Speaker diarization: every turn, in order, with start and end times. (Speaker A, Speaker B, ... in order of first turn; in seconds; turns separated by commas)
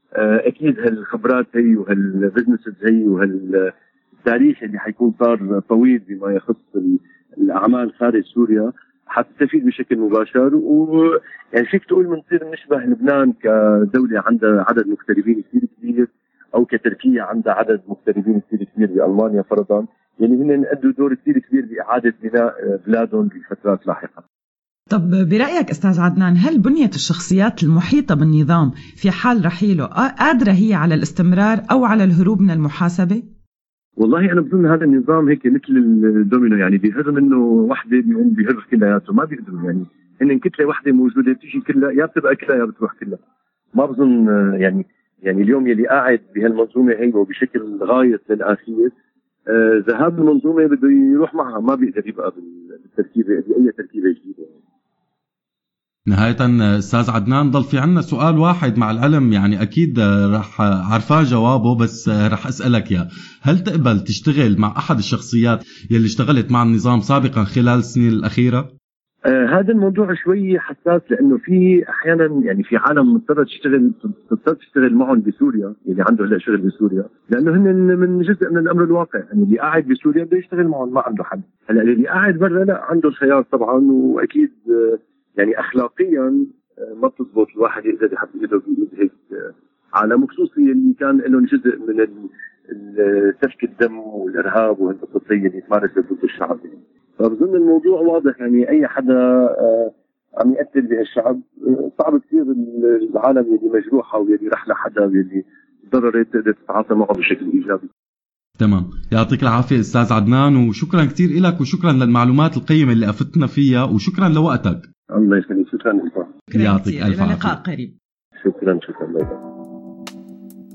Speaker A: 0.2-3.7, Speaker A: 4.3-24.2, Speaker B: 24.9-33.2, Speaker A: 34.0-43.2, Speaker A: 43.8-48.9, Speaker A: 49.5-54.5, Speaker C: 56.1-68.7, Speaker A: 69.3-86.4, Speaker A: 87.0-92.1, Speaker A: 92.7-101.4, Speaker A: 102.0-107.8, Speaker C: 108.6-114.9, Speaker A: 115.1-116.3, Speaker B: 116.5-117.9, Speaker C: 116.5-117.6, Speaker A: 118.4-119.3